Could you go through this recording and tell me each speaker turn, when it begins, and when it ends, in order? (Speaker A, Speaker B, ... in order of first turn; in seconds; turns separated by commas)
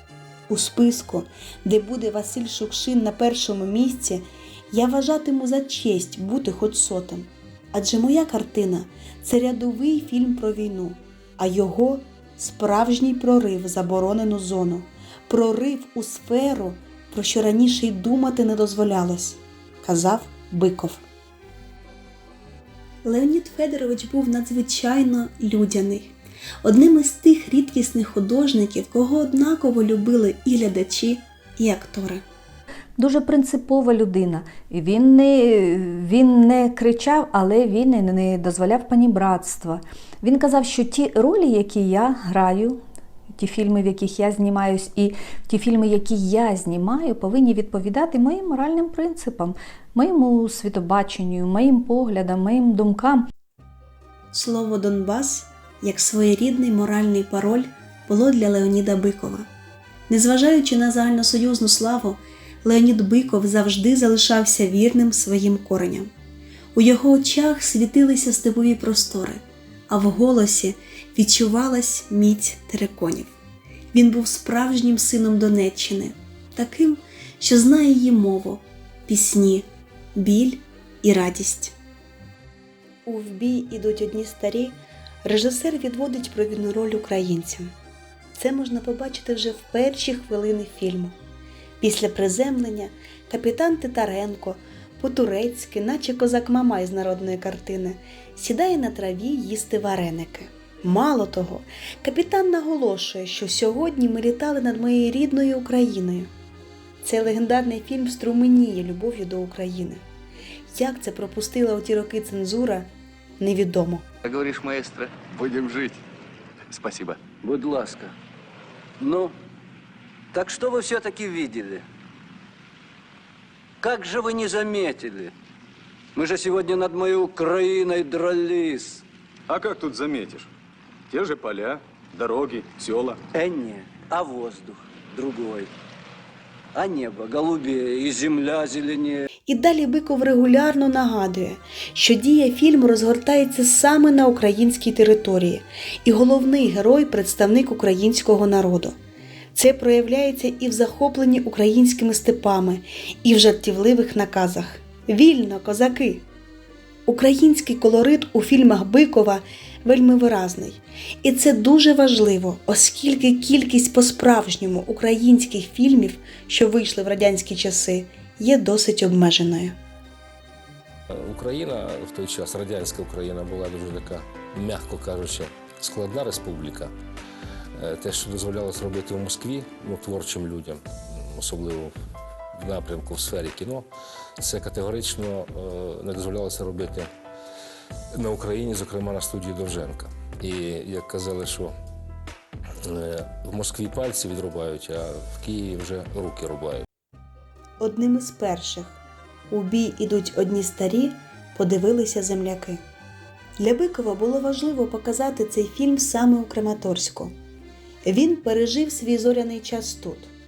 Speaker A: 0.5-21.0, Speaker A: 23.0-32.2, Speaker B: 33.0-42.8, Speaker B: 43.3-53.3, Speaker A: 54.3-59.5, Speaker A: 60.1-66.1, Speaker A: 66.7-73.3, Speaker A: 73.9-81.7, Speaker A: 83.0-87.7, Speaker A: 88.3-91.2, Speaker A: 91.8-106.3, Speaker A: 107.0-110.0, Speaker A: 110.7-114.0, Speaker C: 115.3-115.6, Speaker D: 117.4-118.1, Speaker D: 119.0-119.3, Speaker D: 120.3-121.8, Speaker D: 123.8-125.3, Speaker D: 126.1-129.0, Speaker C: 129.5-130.5, Speaker C: 131.1-133.2, Speaker D: 133.3-135.7, Speaker D: 136.7-139.3, Speaker A: 139.5-149.0, Speaker A: 149.5-156.2, Speaker A: 157.1-169.8, Speaker E: 171.1-176.9, Speaker E: 177.8-181.9, Speaker E: 182.5-187.1, Speaker E: 188.1-191.7, Speaker E: 192.8-196.8, Speaker A: 197.8-202.8, Speaker A: 203.6-207.3, Speaker A: 208.0-210.3